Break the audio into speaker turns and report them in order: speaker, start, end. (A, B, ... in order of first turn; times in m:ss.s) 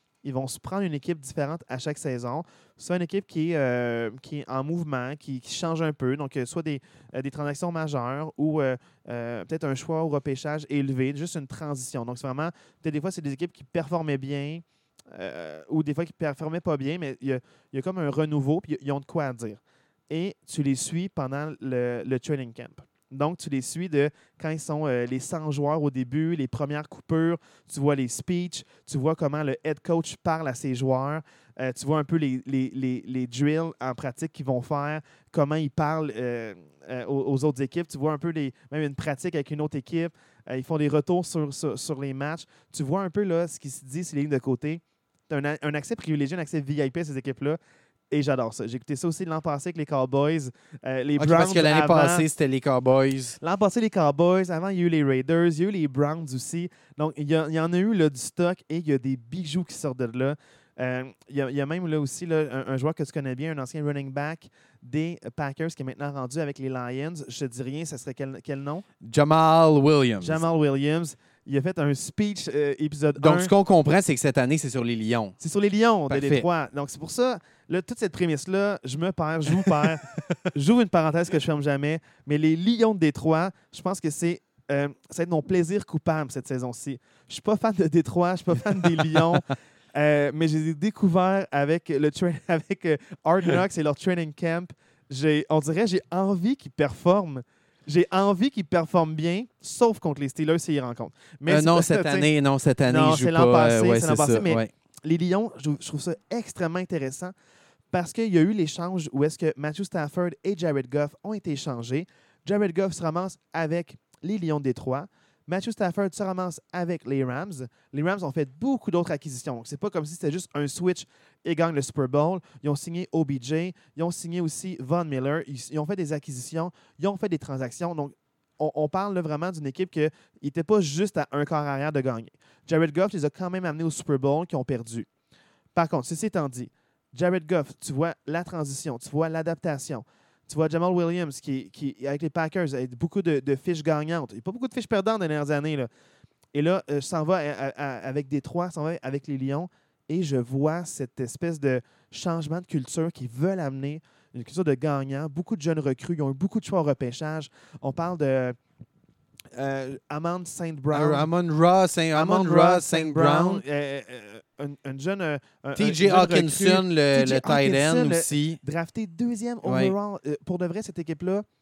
0:00.2-0:47.6 A
0:48.1-0:52.2 A
0:51.2-0:53.4 B
0:53.4-1:08.9 A
1:09.0-1:10.4 B
1:10.2-1:13.5 A
1:13.2-1:15.4 B
1:15.4-1:42.3 A
1:16.1-1:16.4 B
1:19.5-1:20.4 B
1:28.7-1:29.4 B
1:41.4-1:44.7 B
1:42.9-1:47.3 A
1:47.9-2:15.1 A
2:15.7-2:25.9 A
2:26.5-2:38.6 A
2:39.5-2:41.3 A
2:40.9-2:43.6 B
2:42.1-2:51.4 A
2:45.8-2:48.6 B
2:49.6-2:49.9 B